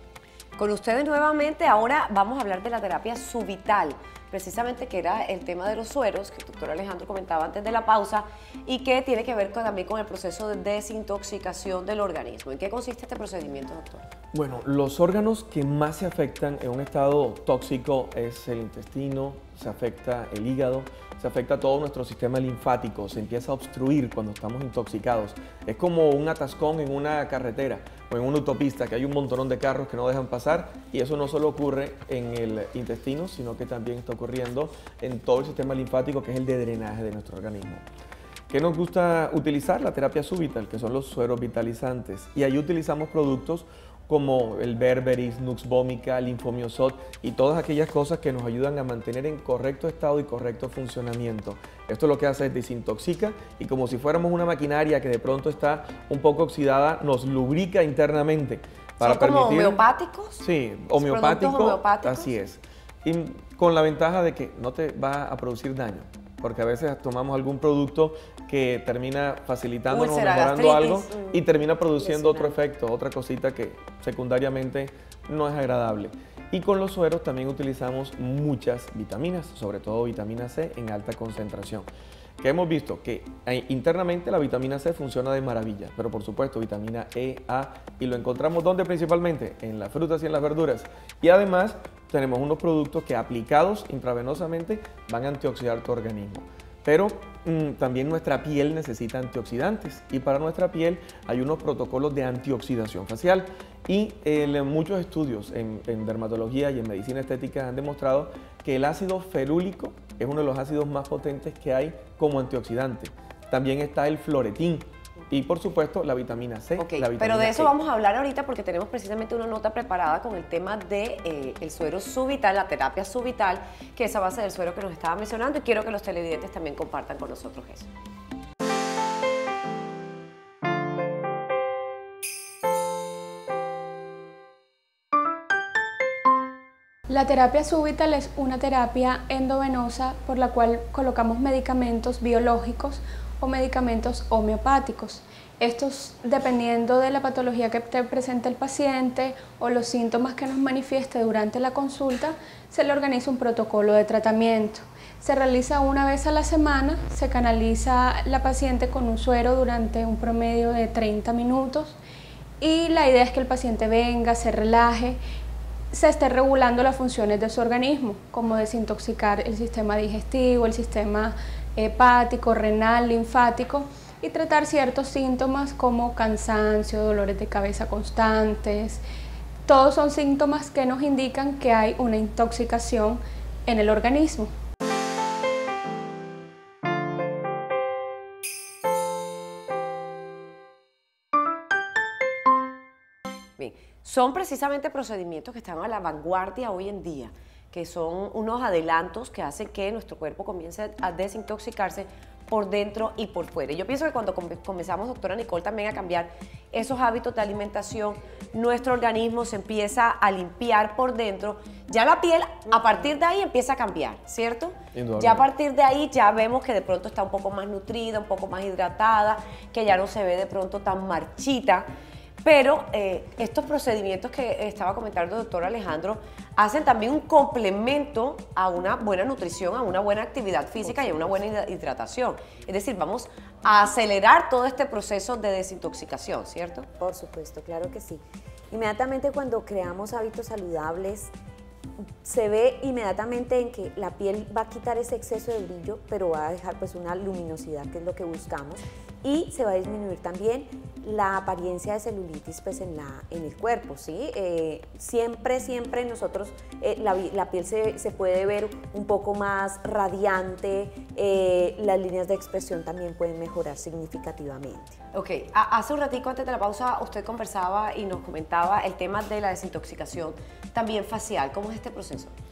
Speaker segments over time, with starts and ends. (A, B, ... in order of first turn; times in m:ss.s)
0:00.6-0:14.0 A
0:14.3-0:37.8 B
0:38.5-0:59.8 B
0:59.0-1:00.4 A
1:00.4-1:21.8 B
1:01.0-1:02.3 A
1:09.9-1:11.3 A
1:12.0-1:12.6 C
1:22.4-1:57.7 B
1:56.8-2:07.9 A
2:17.1-2:42.0 D
2:42.6-2:45.2 D
2:45.9-2:59.0 D
2:59.6-3:04.5 D
3:13.6-3:41.9 A
3:34.9-3:35.5 B
3:42.4-3:56.9 A
3:57.0-4:01.3 C
4:02.2-4:25.0 C
4:25.1-4:32.3 A